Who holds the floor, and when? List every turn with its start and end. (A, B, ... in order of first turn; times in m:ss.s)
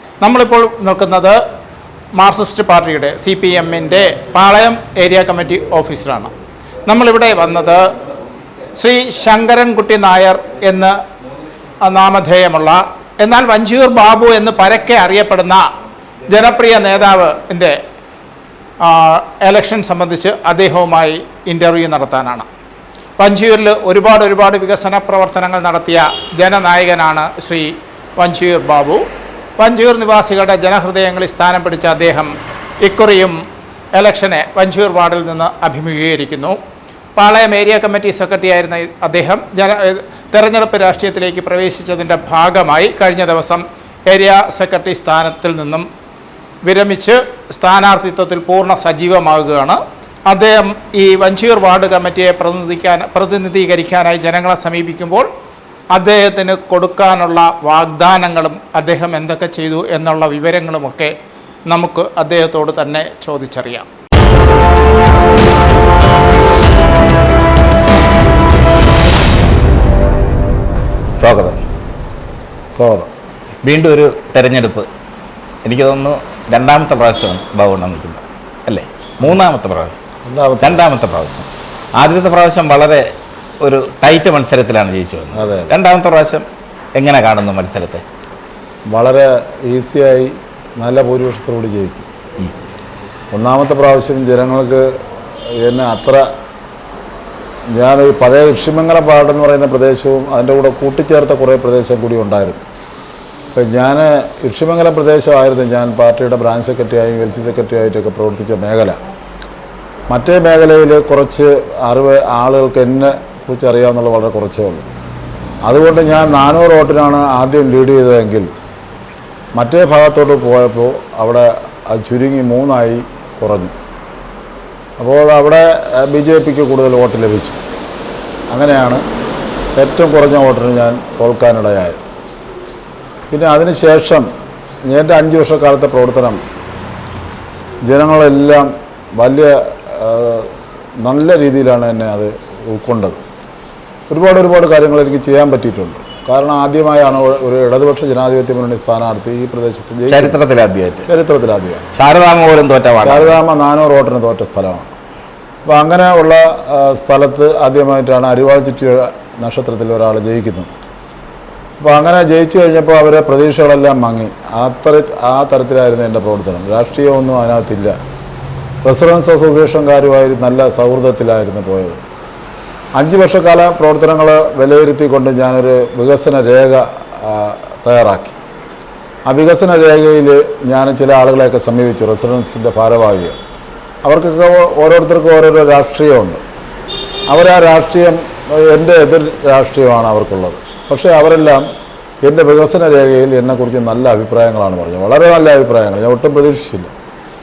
0:00.2-0:01.4 A
0:02.2-0:06.3 A
0:06.8-0:07.8 A
0:08.8-0:11.0 A
0:11.8-0:15.6 A
0:16.3-0:17.8 A
0:18.8-0:22.5 A
0:23.2-0:29.0 A
0:29.6-0:32.3 A
0:32.8-0:33.4 A
0:34.0-0:36.6 A
0:37.2-0:45.8 A
0:46.6-0:55.3 A
0:55.9-1:01.1 A
1:01.7-1:03.9 A
1:11.2-1:11.6 B
1:12.7-1:13.1 C
1:13.6-1:14.9 B
1:15.6-1:19.9 B
1:20.2-1:20.9 C
1:20.6-1:23.0 B
1:23.6-1:28.0 B
1:25.3-1:25.7 C
1:28.9-1:32.1 C
1:33.3-1:34.9 C
1:35.5-1:36.2 C
1:37.7-1:42.6 C
1:43.5-1:49.0 C
1:50.1-1:54.8 C
1:55.6-1:58.5 C
1:59.6-2:03.7 C
2:05.0-2:07.6 C
2:08.5-2:09.0 C
2:09.8-2:12.0 C
2:13.3-2:14.3 C
2:14.8-2:16.4 C
2:17.9-2:20.5 C
2:21.0-2:23.2 C
2:24.1-2:30.4 C
2:30.1-2:31.1 B
2:31.0-2:31.8 C
2:31.9-2:33.4 B
2:33.0-2:34.9 C
2:35.6-2:40.7 C
2:41.8-2:48.0 C
2:48.8-2:52.0 C
2:53.0-2:58.3 C
2:59.2-3:03.4 C
3:04.0-3:06.4 C
3:07.3-3:11.6 C
3:12.2-3:16.9 C